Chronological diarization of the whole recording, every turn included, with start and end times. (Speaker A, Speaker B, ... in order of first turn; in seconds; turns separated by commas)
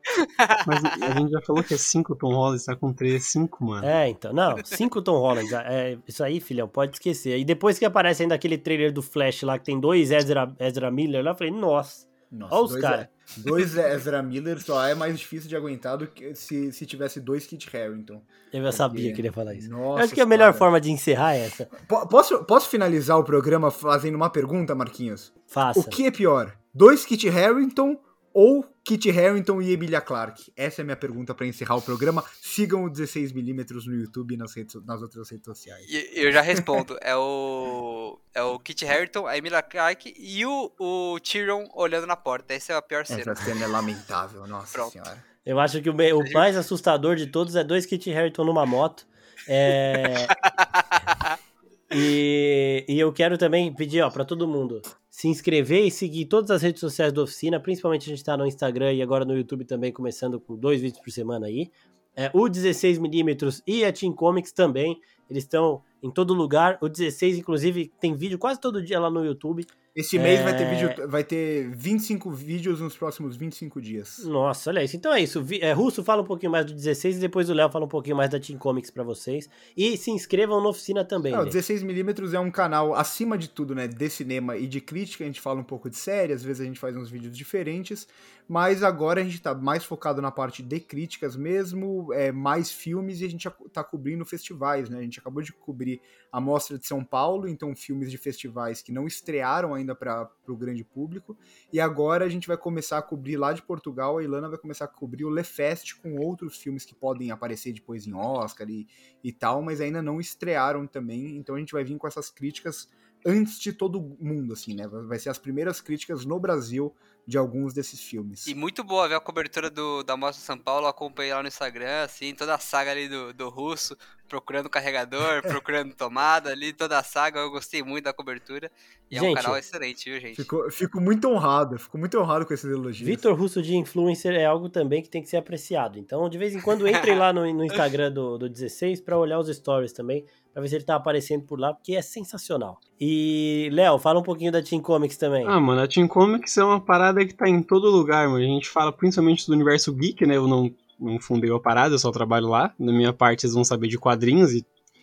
Speaker A: 0.2-1.2, Speaker B: 0.7-3.9, Speaker C: 3.8-13.1, Speaker D: 12.3-20.7, Speaker C: 18.5-21.7, Speaker D: 21.7-35.9, Speaker C: 25.5-26.0, Speaker A: 35.9-43.6, Speaker D: 36.6-36.8, Speaker D: 43.1-45.2, Speaker C: 45.5-50.3, Speaker A: 50.3-51.4, Speaker C: 51.9-71.0, Speaker D: 70.0-74.3, Speaker C: 74.2-81.6, Speaker D: 81.3-118.5, Speaker A: 118.5-130.5, Speaker C: 129.1-129.6, Speaker D: 130.3-133.3, Speaker C: 133.0-145.6, Speaker A: 136.9-137.2, Speaker B: 145.4-154.7